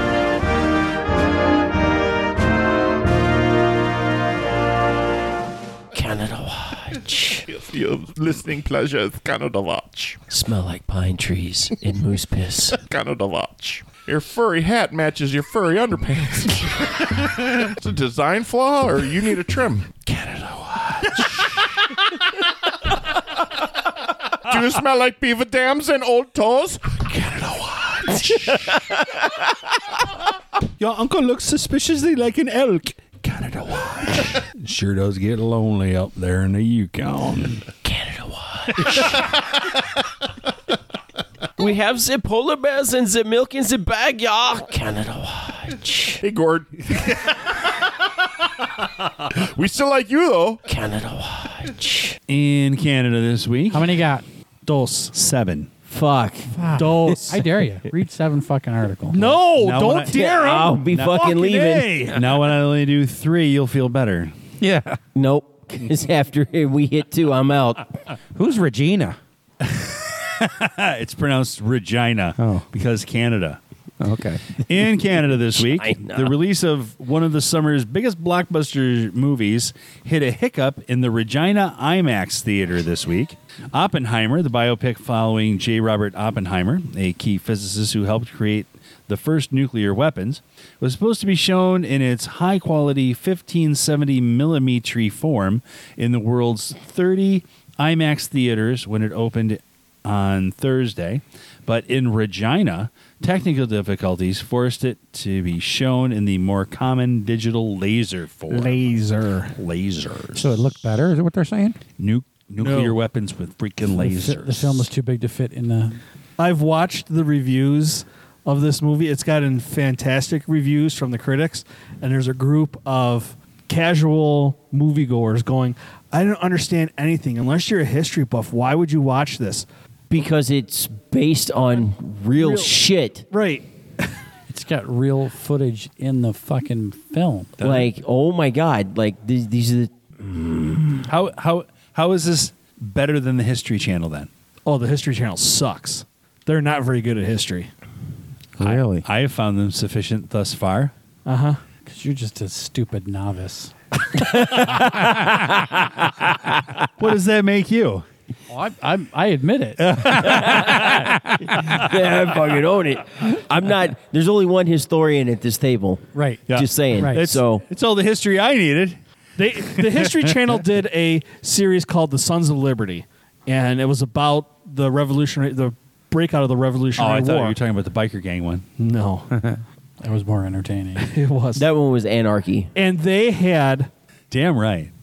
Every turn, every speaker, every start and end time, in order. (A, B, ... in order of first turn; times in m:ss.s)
0:05.9-0:07.5 A
0:07.5-0:10.2 B
0:10.3-0:12.8 A
0:12.7-0:20.0 B
0:20.1-0:21.5 C
0:24.5-0:27.1 B
0:27.1-0:29.3 C
0:30.8-0:37.7 C
0:37.8-0:39.3 A
0:41.6-0:46.2 A
0:46.2-0:47.9 B
0:49.3-0:50.6 B
0:50.7-0:52.2 A
0:52.3-0:53.9 C
0:53.7-0:54.2 D
0:54.6-0:55.1 E
0:55.1-0:55.7 C
0:55.9-0:56.6 A
0:56.5-0:59.4 D
0:56.7-0:57.4 E
0:59.1-1:02.2 E
0:59.6-1:00.2 C
1:00.1-1:02.0 A
1:00.9-1:01.2 C
1:02.1-1:04.3 C
1:04.6-1:05.0 F
1:05.2-1:07.9 A
1:08.3-1:09.2 F
1:09.6-1:13.6 C
1:12.4-1:12.6 F
1:14.0-1:14.6 F
1:14.6-1:48.9 C
1:15.6-1:16.3 A
1:48.5-1:49.6 E
1:49.5-1:50.6 C
1:50.4-1:51.8 F
1:52.0-1:54.9 C
1:52.6-1:53.0 E
1:53.9-1:56.0 D
1:56.4-2:09.7 E
2:10.1-2:13.3 A
2:12.4-2:12.8 E
2:13.3-2:14.2 E
2:14.5-2:17.6 D
2:17.6-2:17.9 C
2:17.6-2:21.1 A
2:21.0-2:24.3 C
2:24.7-2:27.7 E
2:28.6-2:29.0 F
2:28.6-2:30.9 C
2:31.3-2:31.6 E
2:31.9-2:33.7 D
2:34.1-2:36.9 A
2:37.0-2:38.0 C
2:38.5-2:40.0 D
2:39.8-2:41.9 C
2:40.2-2:47.6 A
2:46.1-2:46.4 D
2:46.5-2:49.0 C
2:47.0-2:47.3 D
2:49.4-2:57.6 E
2:49.6-2:50.4 C
2:57.0-2:58.7 C
2:58.8-2:59.4 E
3:00.0-3:01.1 D
3:01.0-3:01.7 E
3:01.6-3:02.7 A
3:02.8-3:03.9 E
3:04.3-3:04.9 C